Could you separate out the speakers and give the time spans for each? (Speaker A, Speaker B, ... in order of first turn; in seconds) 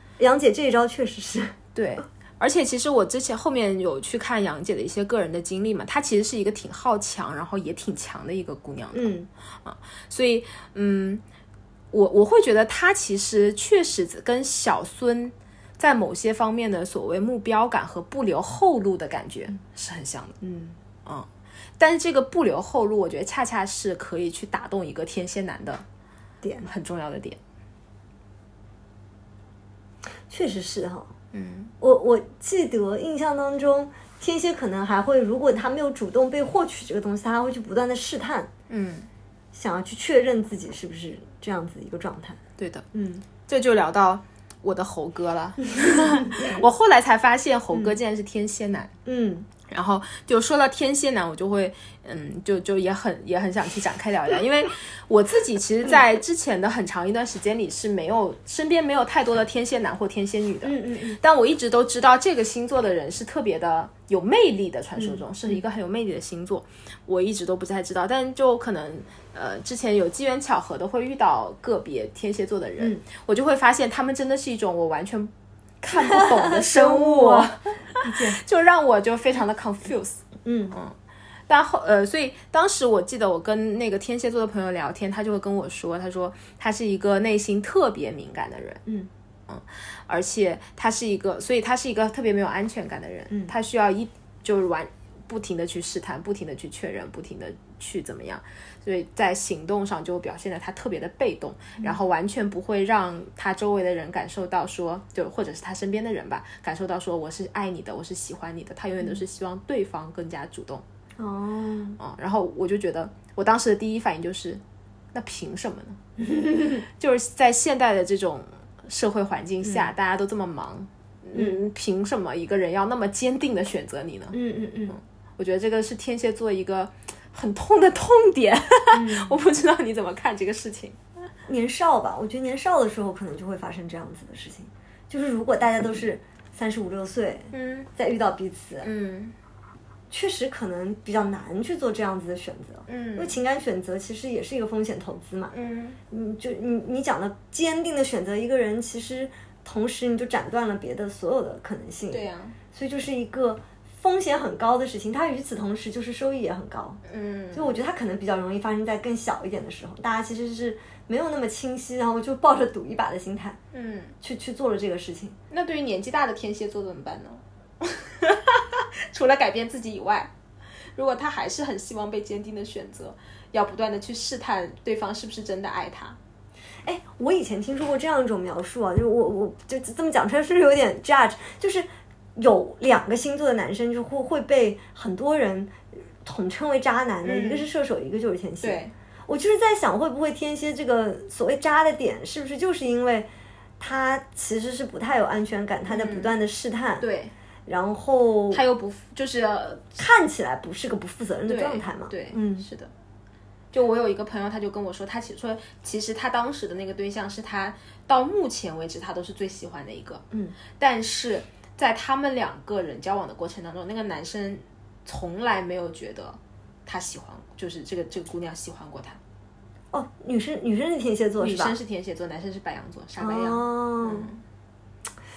Speaker A: 0.2-1.6, 8.9-9.3, 20.4-20.8, 30.3-31.1, 31.8-38.5, 39.5-42.4, 42.9-43.3, 45.9-46.6, 49.1-49.5, 60.6-61.2, 65.0-65.6, 72.8-73.0, 75.9-78.4, 80.5-80.8, 111.2-112.0, 116.2-116.8, 119.6-119.9, 121.3-121.6, 124.3-125.0, 128.9-129.4, 131.5-138.9, 140.1-145.5, 146.1-157.0, 157.5-163.6, 164.2-165.4, 176.8-197.1, 197.7-198.6, 200.0-202.7, 219.9-221.8, 223.2-224.3
Speaker B: 1.8-9.1, 9.6-11.2, 11.9-20.4, 21.1-25.9, 26.6-27.4, 31.3-31.7, 38.7-39.1, 42.6-42.9, 43.4-48.9, 49.7-75.3, 75.8-80.9, 81.5-88.8, 89.5-110.8, 112.0-114.6, 115.1-116.0, 116.8-124.4, 124.9-131.0, 137.5-137.9, 138.8-139.3, 142.9-143.4, 145.5-146.0, 152.1-152.6, 157.1-157.8, 163.7-164.1, 165.5-170.3, 170.9-176.2, 187.2-187.7, 188.6-188.9, 195.9-196.3, 197.0-197.3, 198.5-200.0, 201.5-202.9, 203.7-210.2, 210.8-219.2, 221.4-224.4